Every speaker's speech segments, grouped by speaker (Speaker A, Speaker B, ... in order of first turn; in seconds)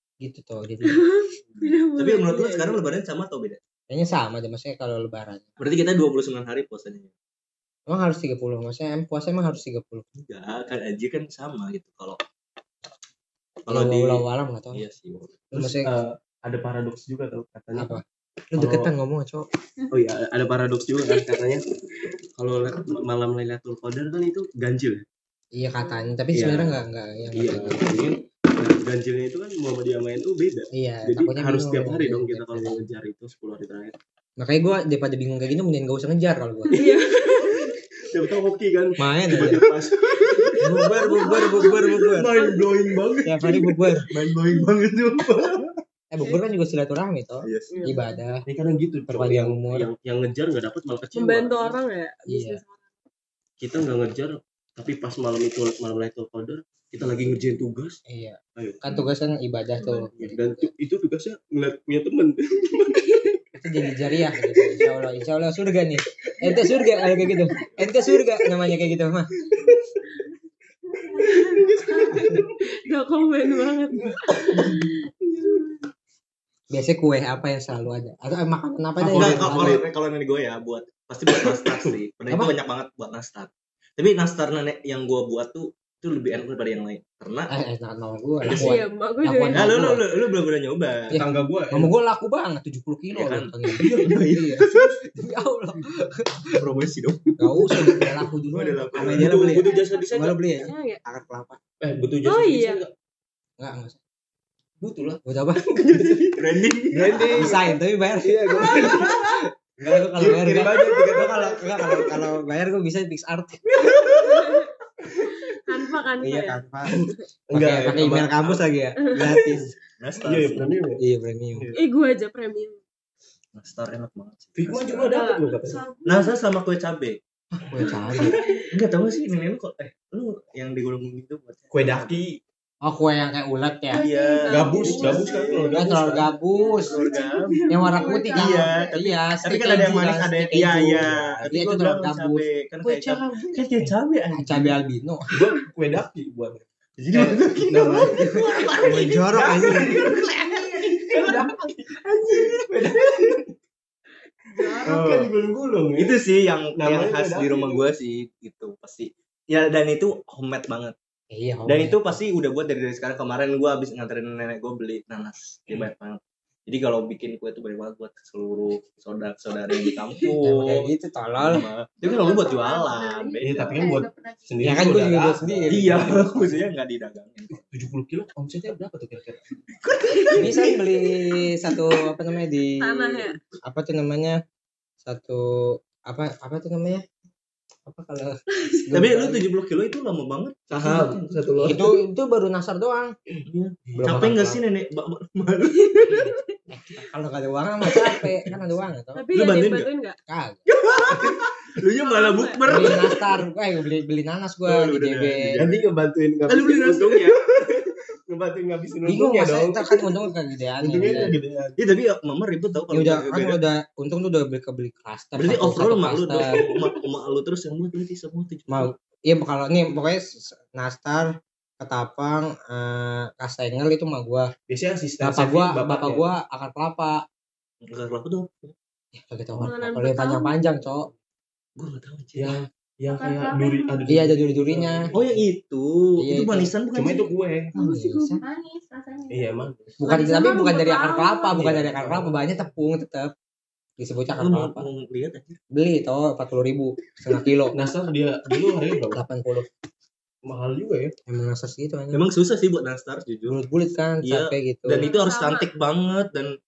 Speaker A: 0.2-1.0, 3.9-5.5, 7.9-10.0, 13.7-14.8, 15.5-15.9, 17.7-19.4, 25.5-27.9, 30.7-32.8, 34.4-36.8, 39.0-39.7, 40.8-41.9, 43.2-44.1, 46.1-48.4, 49.1-49.9, 52.3-52.6, 58.1-60.7, 63.6-69.4, 76.7-79.8, 87.5-90.0, 91.1-96.5, 97.4-101.6, 103.6-104.0, 105.2-105.6, 107.3-113.9, 116.2-116.9, 117.5-119.7, 121.0-121.7, 127.5-128.4, 132.8-134.1, 135.7-137.1, 137.7-145.3, 148.8-150.1, 161.3-162.2, 170.4-171.6, 174.6-176.3, 180.4-184.4, 185.0-187.0, 187.8-189.4, 191.6-193.1, 193.9-194.6, 196.7-199.2, 200.3-200.6, 202.7-205.6, 209.1-211.3, 212.9-216.4, 218.7-221.3, 221.8-224.5, 225.2-227.2, 229.2-231.1, 234.1-235.1, 236.2-236.7, 237.7-238.4, 240.0-243.3, 244.0-244.9, 245.7-247.8, 249.1-249.7, 251.3-252.2, 253.5-255.2
Speaker B: 0.9-2.9, 36.7-37.8, 40.9-42.8, 51.1-52.9, 62.9-63.4, 66.4-67.3, 71.0-75.0, 88.5-89.8, 99.5-101.0, 102.2-102.8, 114.2-114.7, 115.4-117.1, 121.7-122.8, 124.7-126.4, 133.9-135.8, 154.5-155.1, 169.7-170.3, 180.1-180.7, 182.8-183.4, 188.5-188.8, 195.8-196.6, 199.1-200.2, 202.0-202.9, 229.6-230.5, 237.7-238.4, 240.0-241.6, 255.0-255.7
Speaker C: 1.9-3.6, 5.6-7.1, 10.1-12.2, 13.7-15.3, 39.3-42.4, 44.1-45.7, 47.4-47.9, 79.0-87.5, 88.4-88.8, 89.5-91.2, 93.1-95.0, 96.5-98.0, 98.5-99.5, 105.9-107.5, 110.2-110.7, 113.8-114.3, 120.0-120.7, 123.5-124.8, 126.0-127.2, 127.8-132.2, 133.9-135.8, 136.8-137.6, 138.3-144.8, 147.0-153.1, 154.8-155.3, 155.9-160.9, 161.7-174.0, 175.7-177.5, 179.7-180.6, 188.9-191.5, 193.4-196.3, 199.3-199.9, 200.7-203.3, 204.7-205.8, 206.5-207.4, 211.8-213.6, 215.3-218.9, 227.8-228.7, 231.8-232.6, 235.1-237.4, 244.3-245.6, 252.1-253.6, 254.2-256.5
Speaker D: 15.5-18.0, 18.6-18.9, 19.9-21.6, 22.3-25.1, 26.3-26.8, 27.3-33.9, 37.5-44.0, 47.7-51.8, 53.6-58.0, 58.5-58.8, 60.1-63.2, 67.8-68.3, 69.5-69.8, 71.0-72.6, 73.9-75.7, 79.0-79.8, 81.3-81.9, 91.1-91.9, 93.8-95.0, 97.7-98.1, 98.9-100.4, 101.8-102.9, 104.8-109.4, 110.2-112.3, 115.0-115.5, 116.9-118.5, 119.1-119.7, 120.2-121.0, 124.5-125.8, 127.8-128.6, 131.7-132.4, 134.5-136.3, 137.7-138.1, 141.0-141.4, 145.3-153.5, 154.6-156.2, 156.7-157.8, 173.4-176.6, 177.5-179.5, 190.7-191.9, 193.9-194.4, 201.1-201.4, 205.5-210.1, 210.8-211.8, 216.4-217.0, 224.7-226.3, 232.3-235.4, 236.9-237.7, 239.3-240.1, 241.5-242.3, 247.7-249.2, 250.4-251.1
Speaker E: 134.0-134.5, 136.4-139.1, 172.0-174.8, 233.1-234.1, 238.4-239.7